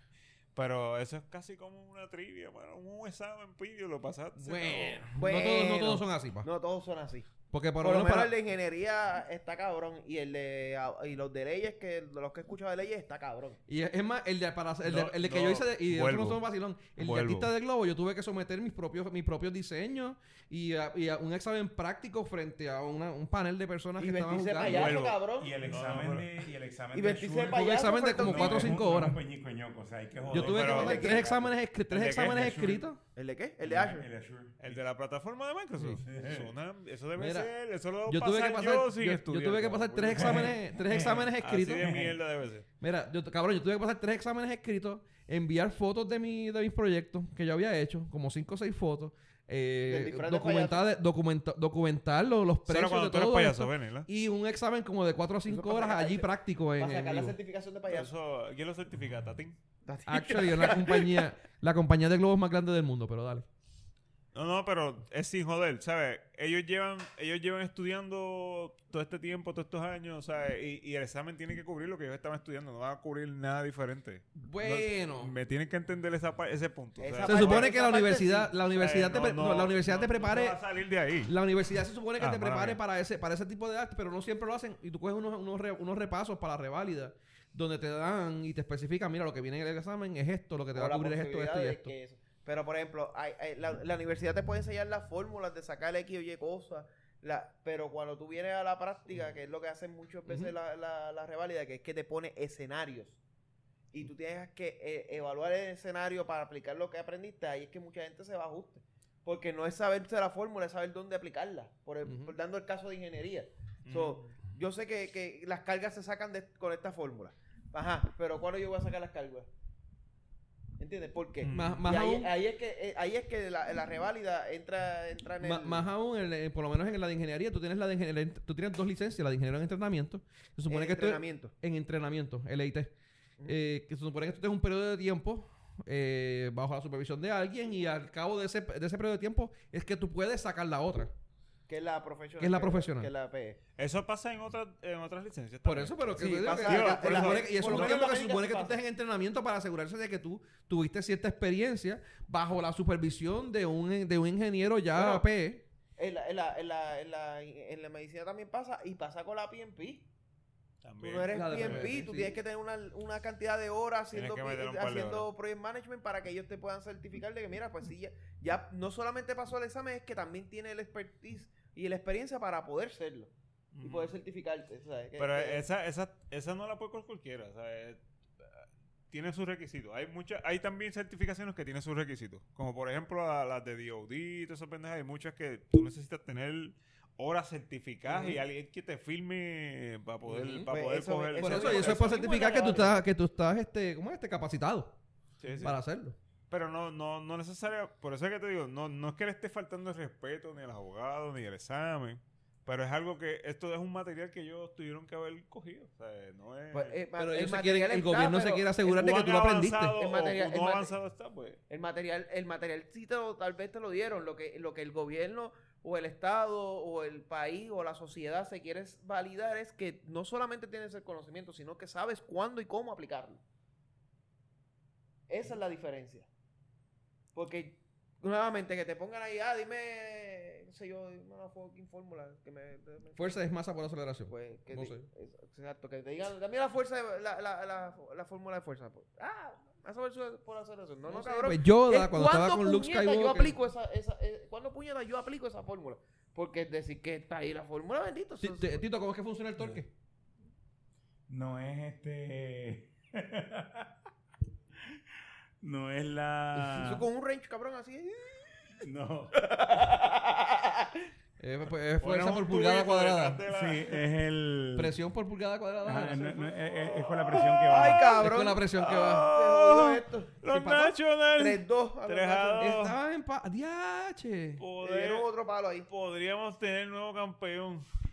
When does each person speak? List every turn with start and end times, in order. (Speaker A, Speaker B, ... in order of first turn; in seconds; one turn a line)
Speaker A: 0.6-5.1
Speaker B: 4.4-6.5
Speaker C: 5.2-7.3
Speaker B: 7.5-8.3
Speaker C: 7.8-13.6
Speaker B: 13.7-24.9
Speaker A: 14.8-16.4
Speaker A: 17.0-17.5
Speaker C: 24.0-25.6
Speaker A: 24.6-26.3
Speaker D: 24.7-31.5
Speaker C: 26.9-28.8
Speaker B: 27.5-29.2
Speaker B: 30.3-33.0
Speaker A: 30.4-31.3
Speaker C: 30.6-31.3
Speaker A: 31.9-32.5
Speaker D: 32.0-32.9
Speaker C: 33.1-34.1
Speaker D: 33.6-34.7
Speaker A: 34.6-40.6
Speaker D: 36.1-36.5
Speaker B: 37.2-37.5
Speaker B: 38.1-41.9
Speaker D: 40.2-42.2
Speaker A: 41.4-42.7
Speaker B: 42.8-57.4
Speaker C: 49.9-50.8
Speaker A: 52.7-54.1
Speaker C: 55.5-58.1
Speaker A: 57.9-59.6
Speaker C: 59.9-61.2
Speaker B: 60.1-63.5
Speaker A: 64.3-77.7
Speaker B: 74.3-75.3
Speaker C: 77.0-78.5
Speaker B: 77.2-80.6
Speaker A: 78.7-81.3
Speaker B: 81.2-91.9
Speaker A: 82.2-82.8
Speaker C: 90.7-103.2
Speaker B: 100.3-100.5
Speaker C: 103.9-119.5
Speaker B: 112.0-112.3
Speaker A: 113.8-114.3
Speaker C: 120.8-125.9
Speaker A: 121.4-121.8
Speaker B: 121.5-122.3
Speaker B: 125.4-132.9
Speaker C: 130.7-131.5
Speaker B: 133.5-141.1
Speaker C: 141.7-143.6
Speaker B: 142.4-143.1
Speaker A: 143.8-148.0
Speaker B: 145.6-155.7
Speaker C: 146.2-148.8
Speaker C: 154.9-155.3
Speaker C: 156.0-160.1
Speaker A: 160.8-162.0
Speaker C: 161.0-173.3
Speaker B: 161.3-162.4
Speaker A: 164.1-165.3
Speaker A: 173.7-174.1
Speaker C: 173.8-175.7
Speaker A: 175.2-178.0
Speaker A: 178.6-192.2
Speaker C: 188.1-188.4
Speaker B: 190.3-190.7
Speaker C: 190.7-193.0
Speaker B: 191.4-195.0
Speaker A: 195.4-195.8
Speaker B: 195.6-196.2
Speaker A: 196.5-207.0
Speaker C: 206.7-208.8
Speaker B: 207.2-210.0
Speaker A: 208.8-211.6
Speaker C: 210.0-210.9
Speaker C: 211.7-223.4
Speaker C: 225.3-226.3
Speaker C: 227.3-233.2
Speaker B: 233.2-235.1
Speaker C: 234.3-248.8
Speaker B: 241.1-243.6
Speaker B: 248.4-249.9
Speaker D: 251.3-253.9
Speaker D: 255.6-257.1
Speaker C: 256.7-258.8
Speaker D: 258.8-259.4
Speaker C: 259.3-261.1
Speaker B: 261.4-263.4
Speaker A: 262.0-264.1
Speaker D: 263.5-265.0
Speaker B: 264.8-266.5
Speaker D: 265.8-268.2
Speaker A: 267.1-267.7
Speaker C: 267.6-270.4
Speaker B: 267.8-269.3
Speaker A: 268.8-273.0
Speaker B: 270.5-270.9
Speaker C: 271.4-272.8
Speaker B: 272.6-274.6
Speaker A: 274.6-275.3
Speaker C: 274.8-275.9
Speaker A: 275.9-277.9